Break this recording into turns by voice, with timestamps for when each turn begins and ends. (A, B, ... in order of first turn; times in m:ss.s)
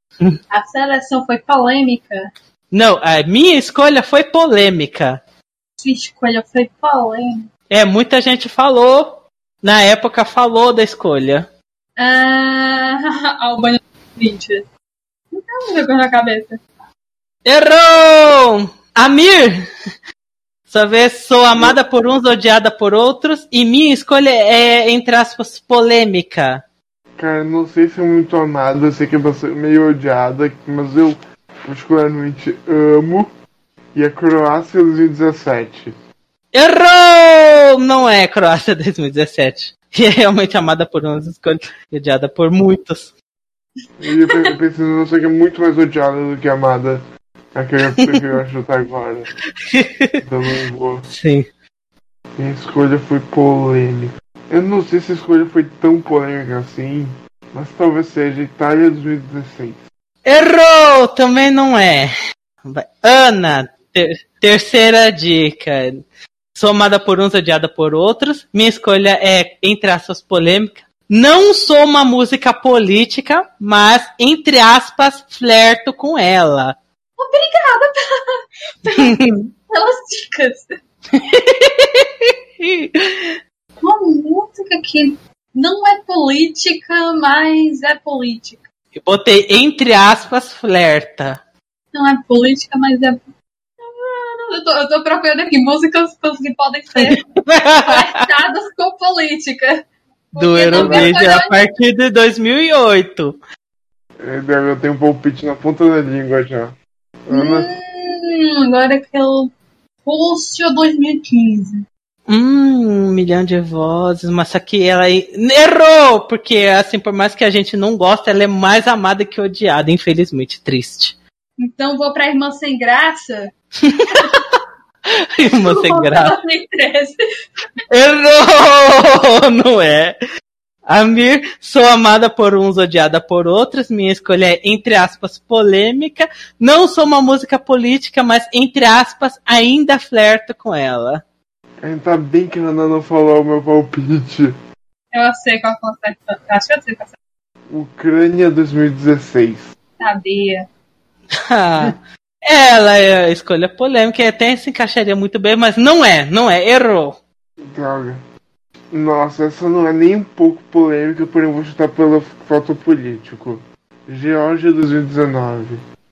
0:00.5-0:02.3 A
0:02.7-0:05.2 B
0:05.8-0:07.5 A
0:07.7-0:11.5 B
0:12.0-0:14.6 A
0:15.3-0:16.6 A
0:17.4-0:19.7 B
0:20.7-0:26.6 B
0:27.2-0:33.3 C
0:33.9-0:35.9 C
0:36.5-0:43.1 B
0:44.0-0:49.3 C
0:49.7-0:50.2 B
0:50.2-0:51.1 C
0:51.1-0:51.5 B
0:52.4-0:59.8 C
1:00.2-1:02.1 B
1:02.6-1:16.8 B
1:17.2-1:20.8 A
1:19.0-1:19.5 B
1:21.1-1:23.4 B
1:23.8-1:28.6 A
1:29.0-1:31.4 B
1:31.9-1:33.2 A
1:33.8-1:37.2 A
1:37.0-1:38.2 B
1:37.8-1:41.6 A
1:40.4-1:43.4 B
1:40.7-1:41.2 C
1:44.2-1:47.7 C
1:47.3-1:49.5 A
1:50.0-1:51.8 A
1:52.3-2:01.2 B
2:01.6-2:03.5 A
2:03.8-2:04.4 B
2:04.1-2:04.4 A
2:05.1-2:06.3 B
2:05.5-2:07.2 A
2:07.9-2:10.2 B
2:10.9-2:21.2 B
2:21.8-2:24.6 C
2:25.1-2:27.2 A
2:27.7-2:29.7 C
2:30.0-2:30.7 A
2:31.4-2:37.2 B
2:37.6-2:38.2 C
2:38.9-2:45.8 C